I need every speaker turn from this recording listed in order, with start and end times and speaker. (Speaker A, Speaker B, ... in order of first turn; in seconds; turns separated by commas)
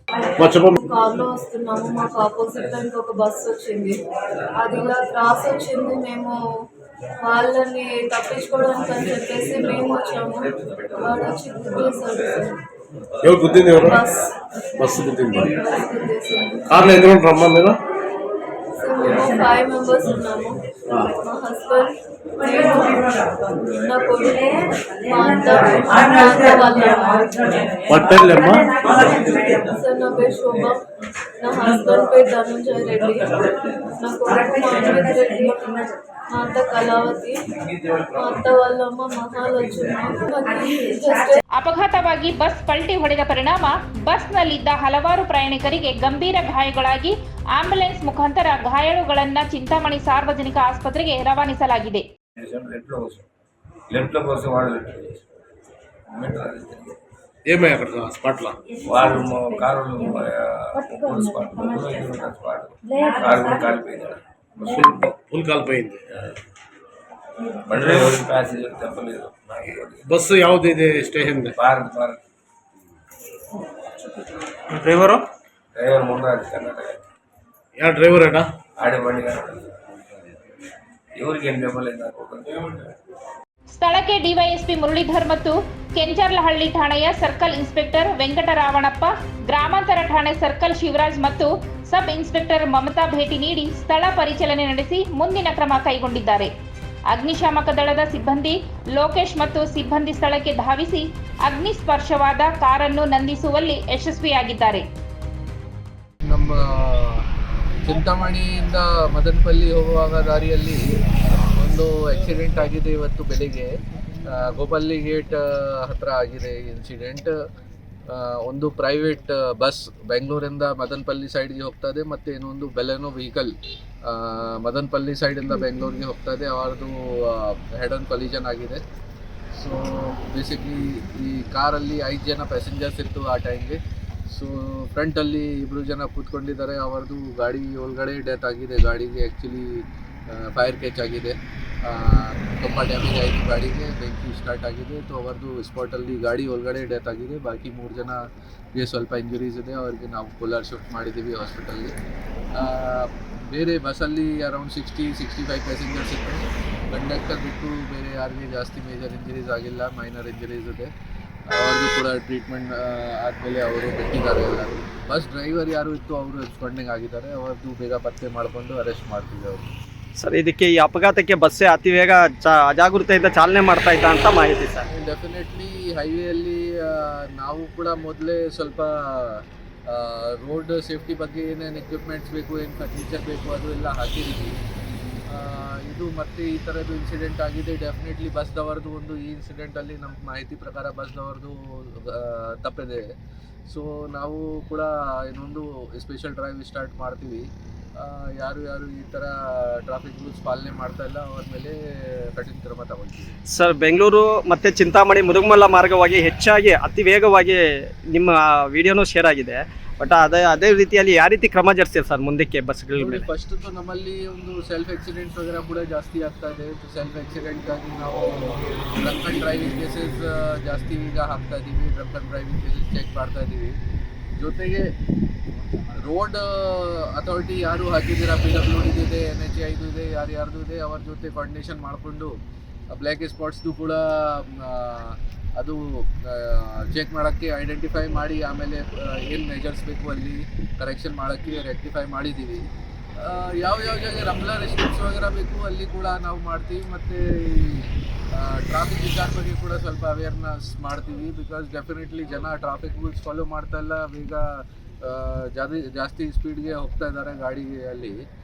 Speaker A: 0.4-0.7, Speaker B: 0.8-4.0, Speaker B: 4.6-6.4, Speaker B: 7.2-12.6, Speaker A: 13.2-14.0, Speaker B: 13.7-14.3, Speaker A: 14.8-15.5, Speaker B: 15.5-16.8, Speaker A: 16.7-17.8, Speaker B: 18.8-20.6, Speaker A: 20.9-21.1, Speaker B: 21.2-23.0, Speaker B: 23.8-27.6, Speaker A: 27.9-28.9, Speaker B: 28.9-30.8, Speaker B: 31.4-35.6, Speaker B: 36.3-37.4, Speaker B: 38.1-41.4, Speaker C: 41.5-52.0, Speaker D: 52.4-53.3, Speaker D: 53.9-55.2, Speaker D: 56.1-57.0, Speaker A: 57.5-58.6, Speaker D: 58.8-65.1, Speaker A: 64.7-66.4, Speaker D: 67.7-70.1, Speaker A: 70.1-71.5, Speaker D: 71.6-72.2, Speaker D: 75.8-77.0, Speaker A: 77.8-78.5, Speaker D: 78.8-79.7, Speaker D: 81.2-82.9, Speaker C: 83.8-96.5, Speaker C: 97.1-104.8, Speaker E: 106.3-107.3, Speaker E: 107.8-110.8, Speaker E: 111.5-113.7, Speaker E: 114.2-117.3, Speaker E: 118.1-128.8, Speaker E: 129.5-148.2, Speaker E: 148.8-151.9, Speaker E: 152.5-160.9, Speaker E: 161.5-169.7, Speaker F: 170.2-174.8, Speaker E: 175.0-184.6, Speaker E: 185.3-193.1, Speaker E: 193.7-197.5, Speaker E: 198.0-203.3, Speaker F: 203.5-213.3, Speaker E: 213.0-223.8, Speaker E: 224.4-224.9, Speaker E: 225.9-232.3, Speaker E: 232.9-242.6, Speaker E: 243.2-258.2